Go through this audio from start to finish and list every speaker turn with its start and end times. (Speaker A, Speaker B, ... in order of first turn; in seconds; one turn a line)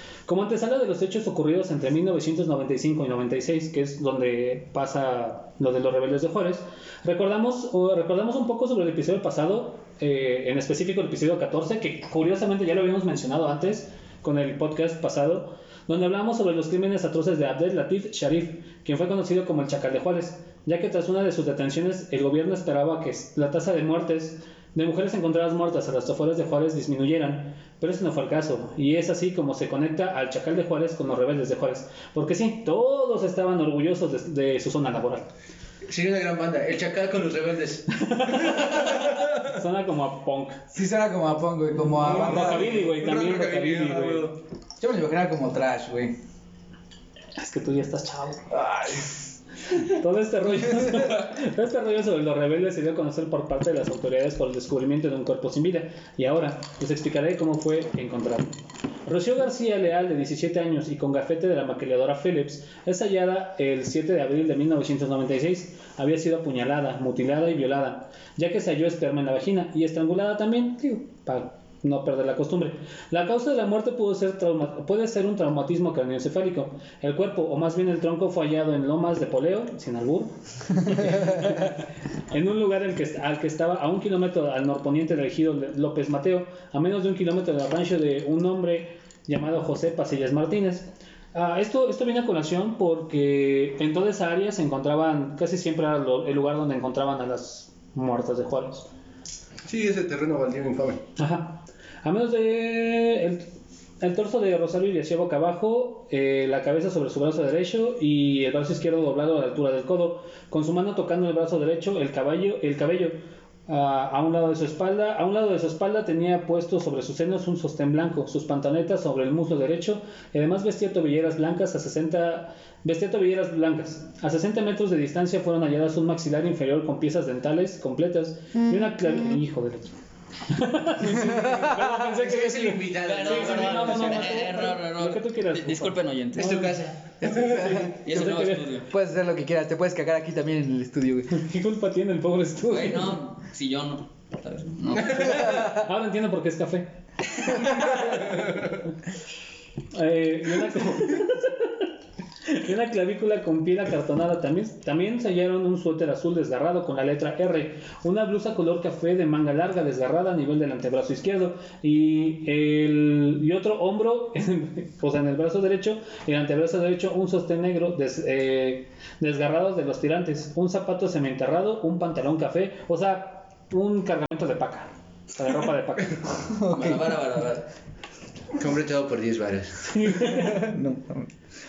Speaker A: 0.2-35.3
Speaker B: 35.9-39.5
Speaker A: 38.0-40.6
Speaker C: 40.7-42.8
Speaker B: 41.9-44.4
Speaker A: 42.0-44.3
Speaker C: 44.8-46.1
Speaker A: 47.4-48.6
Speaker C: 48.5-49.1
Speaker A: 49.7-98.9
Speaker B: 99.7-101.0
Speaker A: 101.2-103.5
Speaker A: 104.0-113.2
Speaker A: 113.7-129.9
Speaker A: 130.5-136.7
Speaker C: 131.0-132.0
Speaker B: 132.0-134.7
Speaker D: 133.0-136.7
Speaker B: 136.3-137.9
Speaker C: 137.3-137.9
Speaker A: 137.4-138.7
Speaker D: 138.0-138.9
Speaker C: 138.9-141.4
Speaker A: 141.3-143.2
Speaker D: 142.7-145.8
Speaker A: 145.2-146.9
Speaker B: 148.0-148.7
Speaker A: 149.9-151.8
Speaker A: 152.4-176.6
Speaker C: 176.5-177.2
Speaker D: 176.6-177.7
Speaker B: 178.5-179.9
Speaker A: 179.9-180.7
Speaker C: 180.2-181.3